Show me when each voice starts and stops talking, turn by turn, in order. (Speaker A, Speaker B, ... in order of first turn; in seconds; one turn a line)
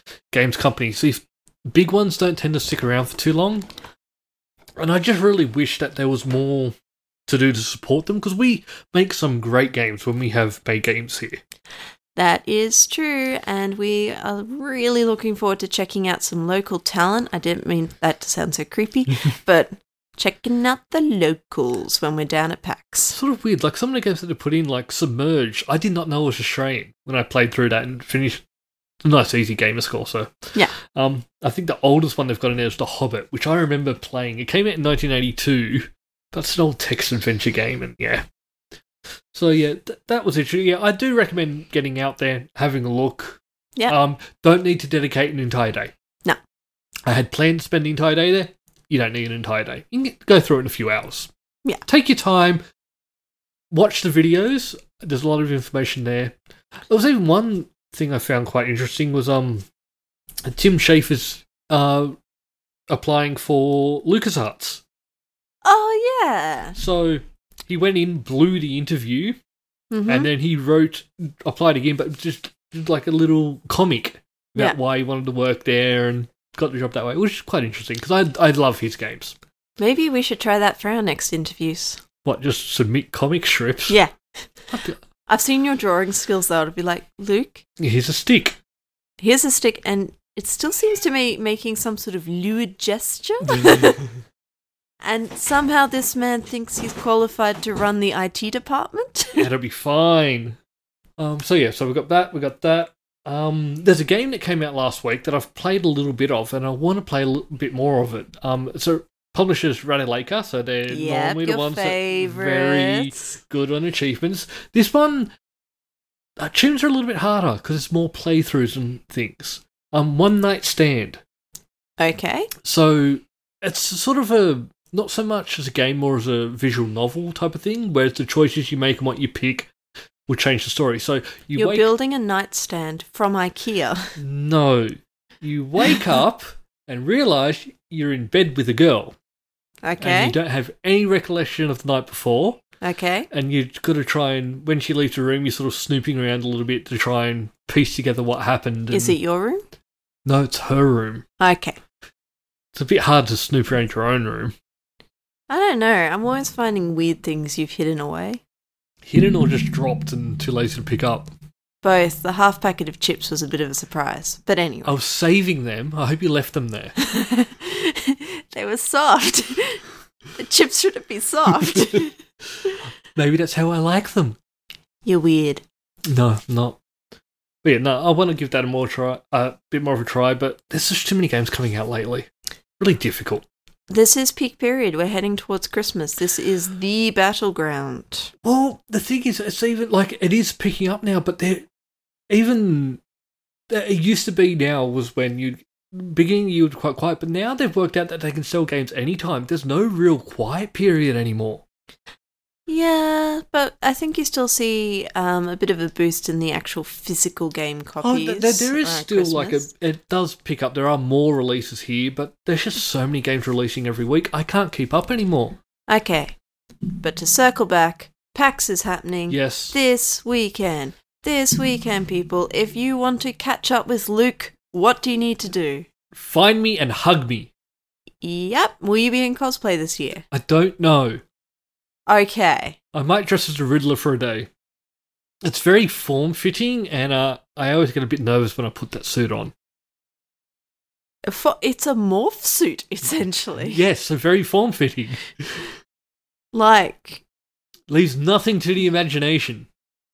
Speaker A: 0.3-3.7
Speaker A: 4.8-6.7
Speaker A: 7.3-11.4
Speaker B: 12.1-23.2
Speaker A: 23.1-28.4
Speaker A: 29.0-38.2
Speaker A: 39.3-45.9
Speaker A: 47.0-51.3
Speaker A: 51.9-52.6
Speaker A: 53.7-56.4
Speaker A: 56.9-59.6
Speaker A: 60.5-62.1
Speaker A: 62.9-64.8
Speaker B: 65.6-66.8
Speaker A: 66.7-69.4
Speaker B: 69.9-70.3
Speaker A: 70.1-79.3
Speaker B: 79.8-82.0
Speaker A: 82.2-84.0
Speaker B: 83.9-84.1
Speaker A: 84.7-85.0
Speaker B: 85.3-87.6
Speaker A: 87.8-88.6
Speaker B: 89.2-94.0
Speaker A: 93.5-94.0
Speaker B: 95.0-99.5
Speaker A: 99.3-100.6
Speaker A: 101.2-115.3
Speaker B: 110.9-113.3
Speaker A: 116.4-121.2
Speaker B: 122.0-122.5
Speaker A: 122.6-129.7
Speaker A: 130.3-131.9
Speaker B: 131.6-134.1
Speaker A: 134.2-139.2
Speaker B: 139.8-140.4
Speaker A: 140.0-142.6
Speaker B: 142.8-143.3
Speaker A: 143.3-149.2
Speaker B: 148.9-149.6
Speaker A: 150.2-151.2
Speaker B: 151.4-151.8
Speaker A: 152.7-154.5
Speaker B: 155.5-158.4
Speaker A: 159.0-161.3
Speaker B: 161.8-165.0
Speaker A: 164.8-166.9
Speaker B: 167.0-169.8
Speaker B: 170.3-172.2
Speaker A: 171.6-172.0
Speaker A: 173.1-174.4
Speaker B: 175.0-175.6
Speaker A: 176.1-176.8
Speaker A: 177.6-182.3
Speaker A: 182.8-183.4
Speaker B: 183.9-188.3
Speaker A: 188.4-191.6
Speaker A: 192.3-193.0
Speaker A: 193.7-201.6
Speaker B: 202.7-209.7
Speaker A: 208.0-215.6
Speaker B: 215.9-216.3
Speaker B: 217.0-225.8
Speaker A: 219.3-219.8
Speaker A: 226.1-227.5
Speaker B: 228.2-230.2
Speaker A: 230.3-231.2
Speaker B: 232.1-232.8
Speaker A: 232.9-234.5
Speaker A: 235.4-239.5
Speaker B: 241.3-243.8
Speaker A: 243.7-245.7
Speaker B: 246.5-247.2
Speaker A: 247.9-249.7